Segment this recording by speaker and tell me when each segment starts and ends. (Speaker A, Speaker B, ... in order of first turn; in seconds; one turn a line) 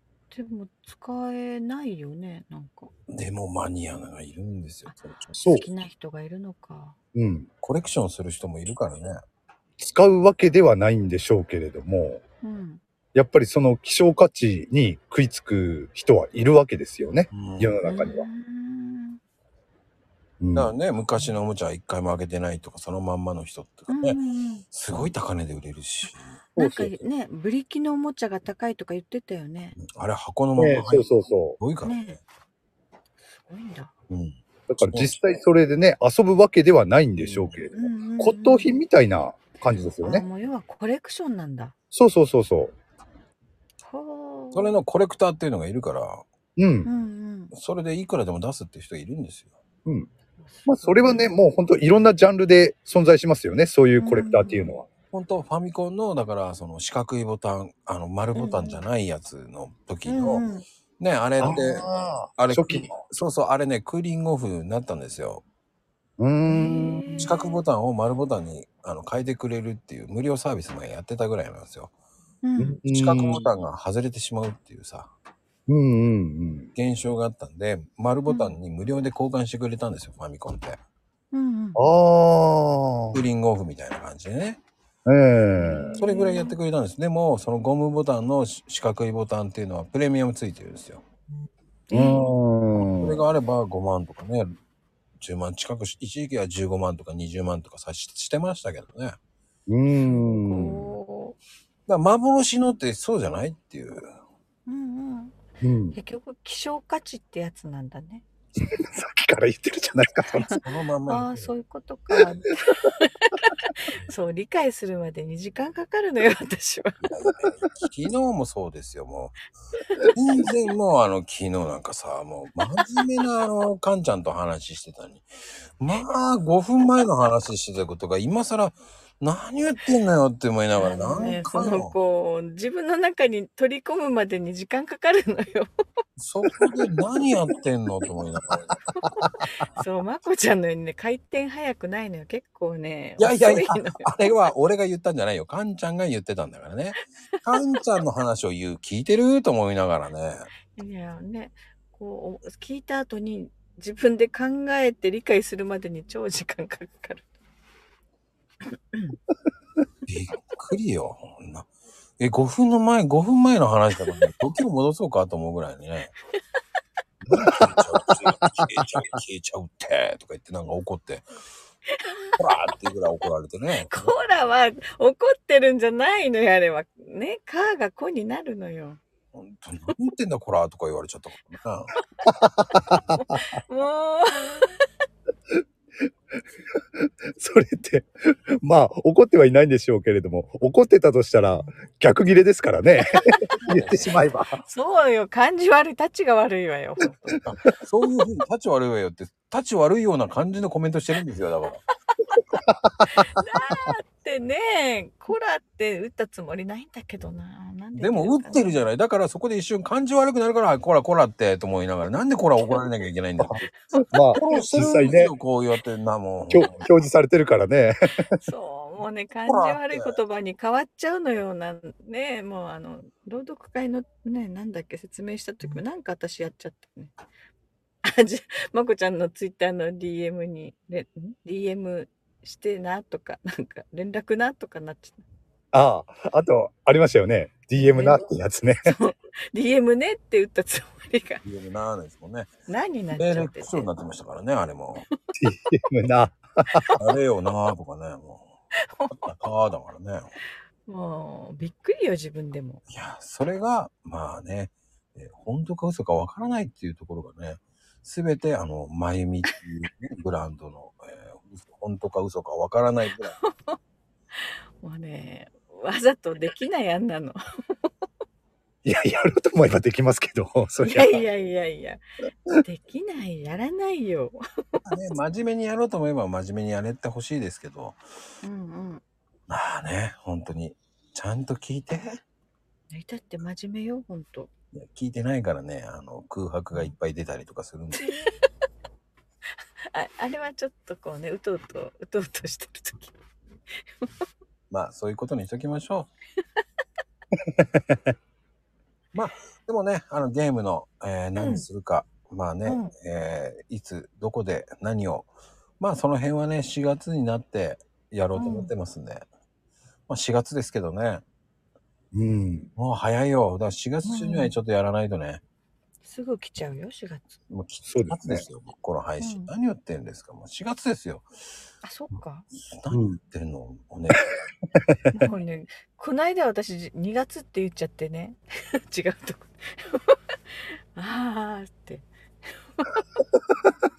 Speaker A: 0.3-2.9
Speaker B: 3.1-5.3
Speaker A: 4.9-7.0
Speaker C: 5.4-5.7
Speaker C: 7.2-7.5
Speaker B: 7.6-9.1
Speaker C: 9.8-12.2
Speaker A: 12.4-12.8
Speaker C: 13.2-18.3
Speaker B: 17.3-17.7
Speaker A: 17.8-19.2
Speaker C: 20.4-20.8
Speaker B: 20.5-24.2
Speaker A: 23.9-24.6
Speaker B: 24.7-26.3
Speaker A: 26.6-29.8
Speaker C: 26.6-26.9
Speaker B: 29.8-31.1
Speaker C: 30.6-31.6
Speaker B: 31.6-32.2
Speaker A: 31.8-32.2
Speaker A: 33.5-33.9
Speaker B: 34.1-34.4
Speaker C: 34.7-40.2
Speaker B: 34.9-35.1
Speaker B: 37.2-37.6
Speaker A: 37.7-38.8
Speaker A: 40.0-41.7
Speaker C: 41.9-42.7
Speaker A: 43.9-44.8
Speaker B: 44.5-46.2
Speaker C: 46.6-46.9
Speaker A: 46.9-47.5
Speaker B: 47.5-49.5
Speaker A: 50.4-51.3
Speaker C: 50.7-54.9
Speaker A: 54.0-54.8
Speaker B: 55.1-60.4
Speaker A: 58.4-58.9
Speaker A: 60.1-60.6
Speaker B: 61.0-61.9
Speaker C: 61.4-62.9
Speaker B: 62.4-65.4
Speaker C: 66.2-67.3
Speaker A: 66.5-67.6
Speaker B: 67.2-71.9
Speaker A: 72.4-72.8
Speaker C: 72.6-73.5
Speaker B: 72.9-75.1
Speaker C: 75.7-76.7
Speaker B: 76.8-80.8
Speaker A: 78.3-78.6
Speaker A: 81.3-81.8
Speaker C: 81.8-83.2
Speaker B: 83.1-84.6
Speaker C: 85.1-86.0
Speaker A: 85.6-86.6
Speaker B: 86.0-91.0
Speaker A: 91.9-92.3
Speaker C: 91.9-93.2
Speaker B: 92.8-94.5
Speaker B: 95.2-99.2
Speaker C: 99.7-101.0
Speaker A: 100.0-101.4
Speaker B: 101.9-104.1
Speaker A: 104.7-105.3
Speaker C: 105.6-106.0
Speaker A: 105.9-108.3
Speaker C: 108.6-110.5
Speaker A: 110.4-117.0
Speaker B: 110.4-111.5
Speaker B: 117.0-119.4
Speaker B: 120.1-125.2
Speaker B: 125.8-131.9
Speaker A: 130.8-135.7
Speaker B: 136.2-138.7
Speaker A: 139.0-144.3
Speaker B: 143.2-150.5
Speaker A: 150.7-157.2
Speaker B: 160.1-161.7
Speaker B: 162.2-166.2
Speaker C: 167.3-168.9
Speaker B: 167.3-171.3
Speaker A: 171.9-172.3
Speaker B: 172.4-174.1
Speaker A: 173.9-179.0
Speaker B: 179.3-181.9
Speaker A: 182.3-184.8
Speaker C: 182.3-183.4
Speaker C: 187.0-194.6
Speaker B: 193.6-194.1
Speaker A: 194.6-197.5
Speaker B: 197.5-201.8
Speaker A: 202.3-202.6
Speaker C: 202.7-203.7
Speaker A: 203.1-208.8
Speaker B: 207.9-213.7
Speaker C: 213.4-215.3
Speaker A: 213.8-214.7
Speaker B: 214.3-216.8
Speaker C: 216.5-218.4
Speaker A: 218.3-227.2
Speaker B: 219.5-220.2
Speaker A: 228.0-235.2
Speaker C: 235.7-239.0
Speaker A: 237.8-238.2
Speaker A: 238.8-241.4
Speaker B: 241.4-242.5
Speaker A: 242.7-243.9
Speaker B: 243.2-245.1
Speaker C: 245.4-246.9
Speaker B: 247.0-248.5
Speaker A: 248.8-249.3
Speaker B: 249.2-250.3
Speaker A: 250.9-252.8
Speaker B: 252.9-263.4
Speaker A: 263.4-263.8
Speaker A: 264.4-267.9
Speaker C: 268.9-271.3
Speaker A: 270.8-272.0
Speaker A: 272.6-274.8
Speaker B: 274.9-278.0
Speaker A: 278.4-279.0
Speaker B: 279.5-282.1
Speaker A: 282.9-284.5
Speaker B: 284.8-288.1
Speaker A: 289.9-293.2
Speaker A: 293.8-294.1
Speaker B: 294.7-296.1
Speaker C: 297.5-298.0
Speaker B: 299.1-305.3
Speaker A: 301.4-301.6
Speaker A: 302.7-302.9
Speaker B: 305.8-309.2
Speaker A: 308.4-308.7
Speaker B: 310.1-311.2
Speaker C: 312.1-312.7
Speaker B: 312.8-315.4
Speaker A: 314.0-314.6
Speaker A: 316.0-317.4
Speaker B: 317.5-321.3
Speaker C: 317.9-318.4
Speaker A: 319.2-319.5
Speaker A: 321.8-322.5
Speaker B: 322.6-324.3
Speaker C: 322.9-323.2
Speaker C: 324.8-325.1
Speaker A: 325.1-330.4
Speaker A: 330.9-332.1